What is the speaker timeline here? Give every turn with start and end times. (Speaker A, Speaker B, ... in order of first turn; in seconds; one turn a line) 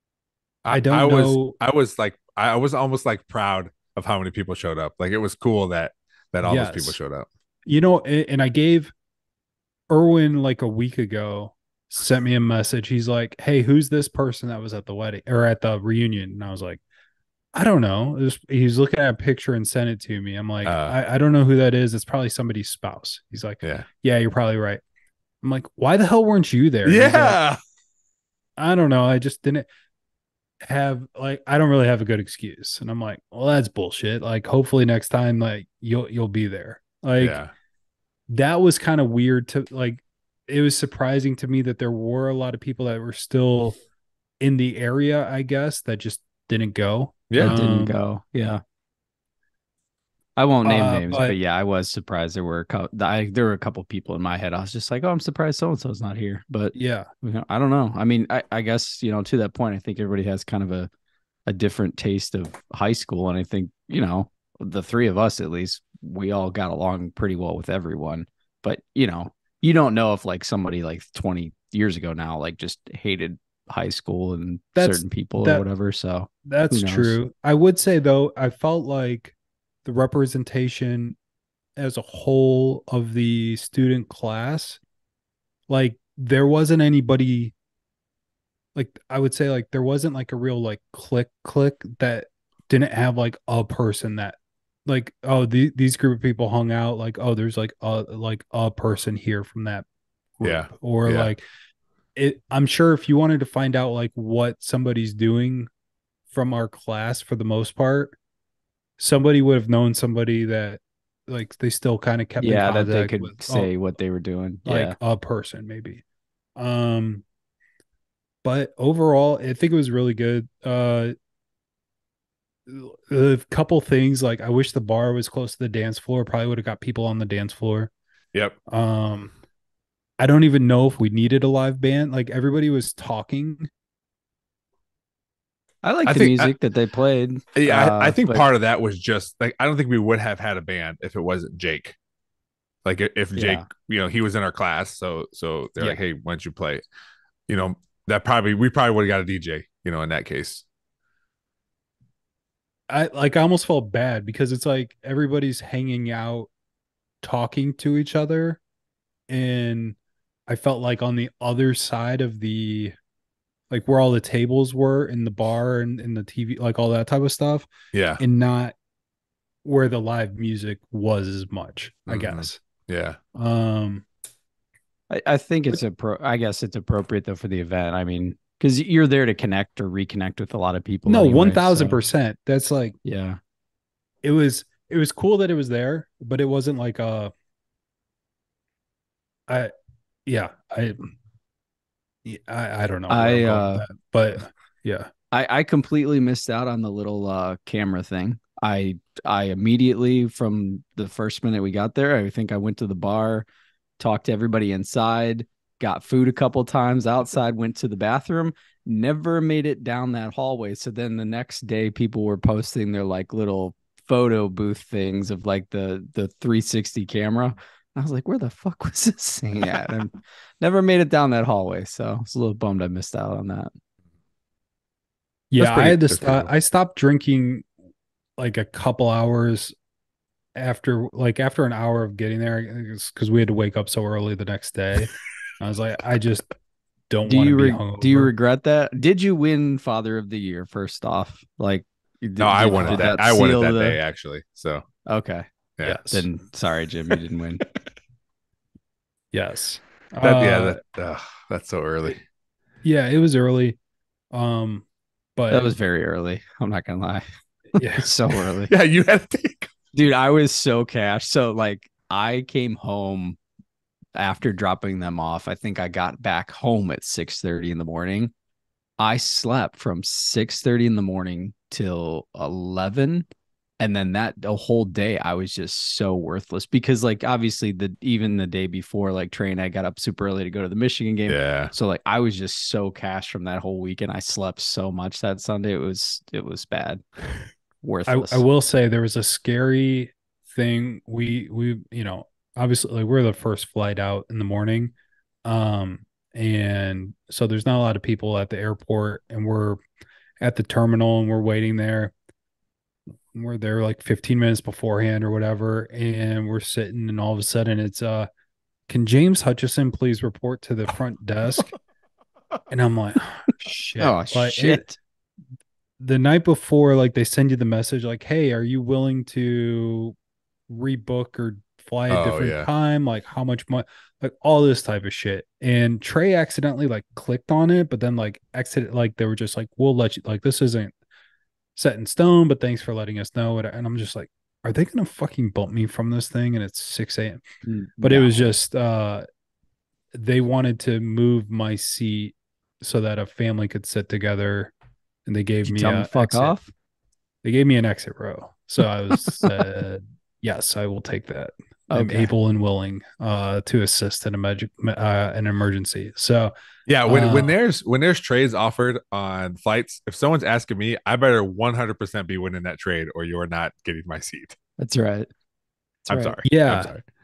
Speaker A: 0.6-7.3
Speaker B: 0.7-1.6
Speaker B: 6.4-7.0
Speaker B: 7.7-8.9
Speaker B: 9.9-16.8
Speaker B: 17.5-24.8
Speaker A: 20.6-20.9
Speaker B: 25.4-27.4
Speaker A: 26.8-27.6
Speaker B: 28.6-29.6
Speaker B: 30.6-37.4
Speaker A: 37.2-37.5
Speaker B: 38.3-43.8
Speaker B: 44.4-47.9
Speaker A: 47.3-47.5
Speaker C: 47.4-48.6
Speaker C: 50.4-60.9
Speaker B: 50.6-51.3
Speaker B: 56.7-57.1
Speaker C: 61.5-77.2
Speaker B: 74.8-75.7
Speaker B: 76.5-79.3
Speaker B: 79.8-81.2
Speaker B: 81.8-84.8
Speaker B: 85.7-87.5
Speaker B: 88.7-99.8
Speaker B: 100.4-101.4
Speaker A: 100.4-101.3
Speaker B: 102.2-105.7
Speaker B: 106.3-108.2
Speaker B: 109.0-113.7
Speaker C: 112.4-115.0
Speaker B: 114.7-116.0
Speaker B: 116.5-117.2
Speaker B: 118.4-121.1
Speaker B: 122.7-127.9
Speaker B: 128.7-129.3
Speaker B: 130.2-133.7
Speaker C: 135.8-138.5
Speaker A: 136.1-136.5
Speaker A: 137.6-142.0
Speaker A: 142.8-146.8
Speaker C: 143.3-143.7
Speaker A: 147.5-150.6
Speaker B: 152.9-156.5
Speaker B: 157.2-158.6
Speaker B: 159.3-162.9
Speaker B: 163.7-168.7
Speaker A: 167.9-168.2
Speaker B: 169.6-172.6
Speaker A: 172.1-173.2
Speaker B: 173.3-174.0
Speaker C: 175.1-182.0
Speaker B: 181.1-182.9
Speaker C: 183.0-183.4
Speaker B: 184.2-187.3
Speaker B: 190.2-191.1
Speaker B: 192.2-195.1
Speaker C: 193.1-193.8
Speaker C: 195.3-203.5
Speaker C: 204.0-223.7
Speaker B: 225.5-227.6
Speaker A: 225.6-226.5
Speaker B: 228.4-229.7
Speaker B: 230.5-236.5
Speaker B: 237.1-238.3
Speaker C: 237.2-244.0
Speaker A: 242.4-244.8
Speaker B: 242.7-243.0
Speaker C: 245.1-245.5
Speaker A: 245.8-246.0
Speaker B: 245.8-246.2
Speaker C: 246.1-247.6
Speaker B: 249.3-250.8
Speaker A: 250.2-252.2
Speaker B: 252.8-253.8
Speaker B: 254.3-254.8
Speaker B: 255.4-255.7
Speaker C: 255.5-258.7
Speaker B: 257.8-258.1
Speaker A: 258.7-259.7
Speaker C: 259.9-263.4
Speaker C: 264.1-268.3
Speaker C: 269.0-273.3
Speaker C: 273.8-287.0
Speaker A: 281.3-281.7
Speaker C: 287.8-288.4
Speaker B: 288.1-294.9
Speaker B: 295.4-299.8
Speaker B: 300.4-302.1
Speaker B: 303.3-308.3
Speaker B: 308.9-311.7
Speaker B: 312.7-314.8
Speaker C: 314.0-315.0
Speaker B: 316.0-320.1
Speaker B: 320.7-330.9
Speaker A: 322.1-322.7
Speaker B: 331.8-337.4
Speaker C: 337.6-338.4
Speaker B: 338.0-339.2
Speaker B: 340.1-344.7
Speaker B: 345.2-346.5
Speaker C: 345.6-346.7
Speaker B: 347.4-356.5
Speaker C: 351.9-352.3
Speaker A: 356.9-364.6
Speaker B: 357.1-357.5
Speaker C: 364.8-365.3
Speaker A: 366.1-367.0
Speaker C: 366.1-366.4
Speaker B: 366.4-366.9